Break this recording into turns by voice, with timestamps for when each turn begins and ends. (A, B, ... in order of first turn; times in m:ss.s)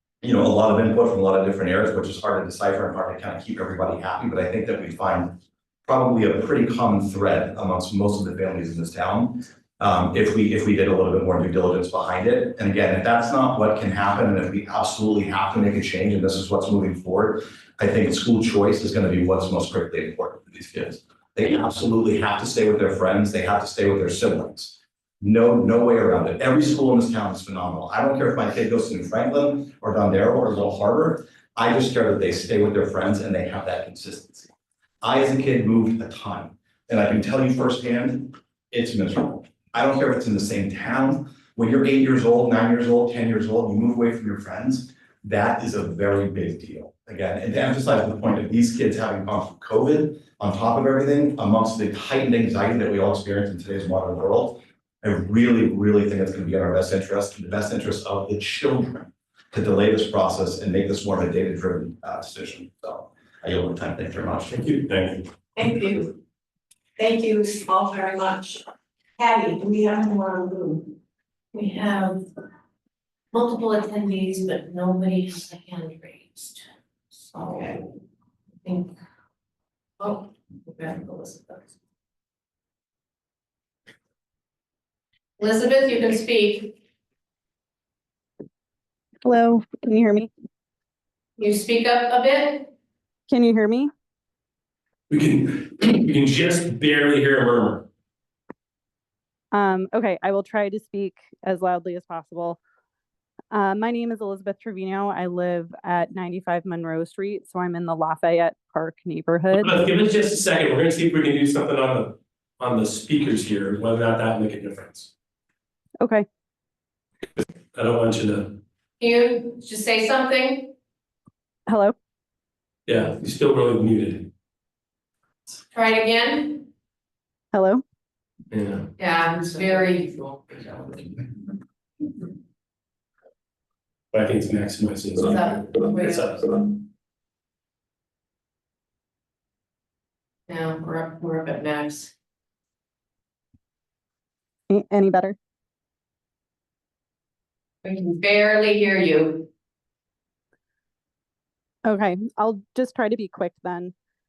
0:00.2-0:34.5 A
0:35.0-1:04.6 A
1:04.5-1:05.3 B
1:05.6-1:06.1 C
1:07.0-1:08.6 C
1:09.2-1:10.9 C
1:11.5-1:12.2 D
1:13.3-1:16.6 D
1:17.3-1:17.8 D
1:18.6-1:18.9 D
1:20.0-1:21.7 D
1:25.4-1:26.8 D
1:29.2-1:30.3 E
1:31.4-1:32.7 D
1:33.3-1:33.9 E
1:35.1-1:37.9 B
1:39.5-1:42.6 E
1:43.5-1:49.8 E
1:49.6-1:55.1 B
1:56.0-1:56.3 E
1:57.4-1:58.6 B
1:59.0-2:00.7 D
2:01.7-2:02.0 E
2:02.9-2:04.3 B
2:05.7-2:06.7 D
2:07.5-2:07.8 E
2:08.5-2:08.9 B
2:09.0-2:10.9 D
2:14.1-2:16.5 B
2:15.2-2:16.7 D
2:20.5-2:22.1 D
2:24.7-2:25.4 E
2:27.8-2:29.5 D
2:31.8-2:33.9 E